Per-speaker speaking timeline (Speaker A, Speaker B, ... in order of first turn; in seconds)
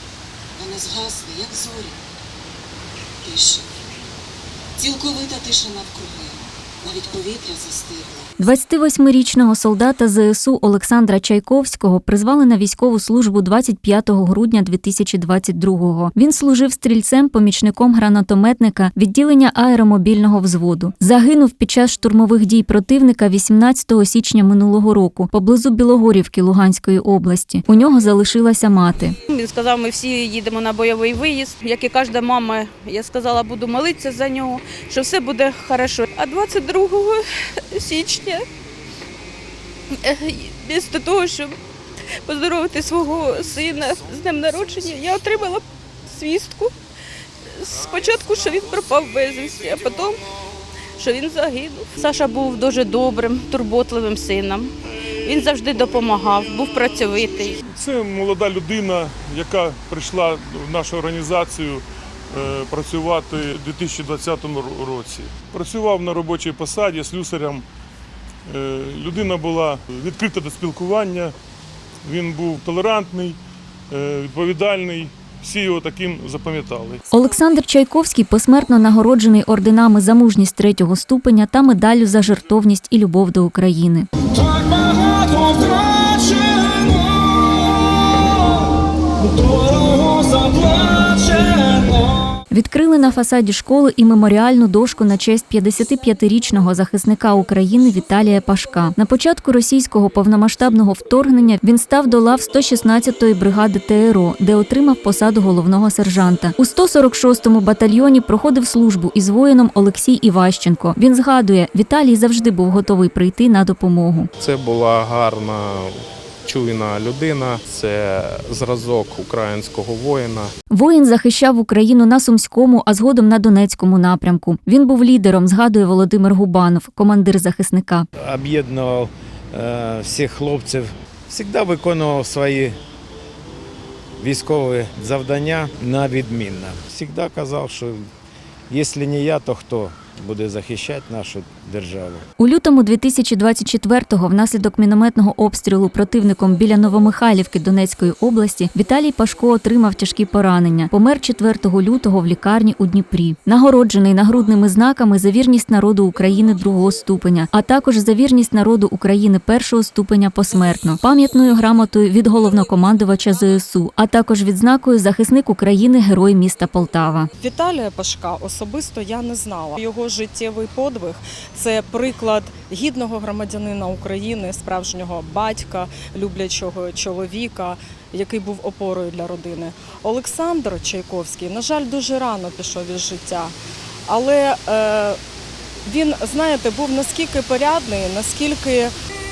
Speaker A: 0.6-2.0, 3.2-3.6, 4.8-8.3
Speaker B: 8.4-29.2, 77.1-84.1, 92.5-114.3, 120.7-128.1, 142.4-167.3
Speaker C: 29.3-38.5, 39.9-41.6, 42.2-46.7, 47.5-50.2, 51.0-54.7, 55.2-57.6
Speaker D: 57.7-67.6, 68.5-71.3, 72.0-73.4, 73.9-77.0
Speaker E: 84.4-92.2
Speaker F: 114.4-120.5
Speaker G: 128.2-132.7, 134.2-138.0, 138.7-142.2
Speaker H: 167.4-183.5, 184.1-185.2, 185.8-188.9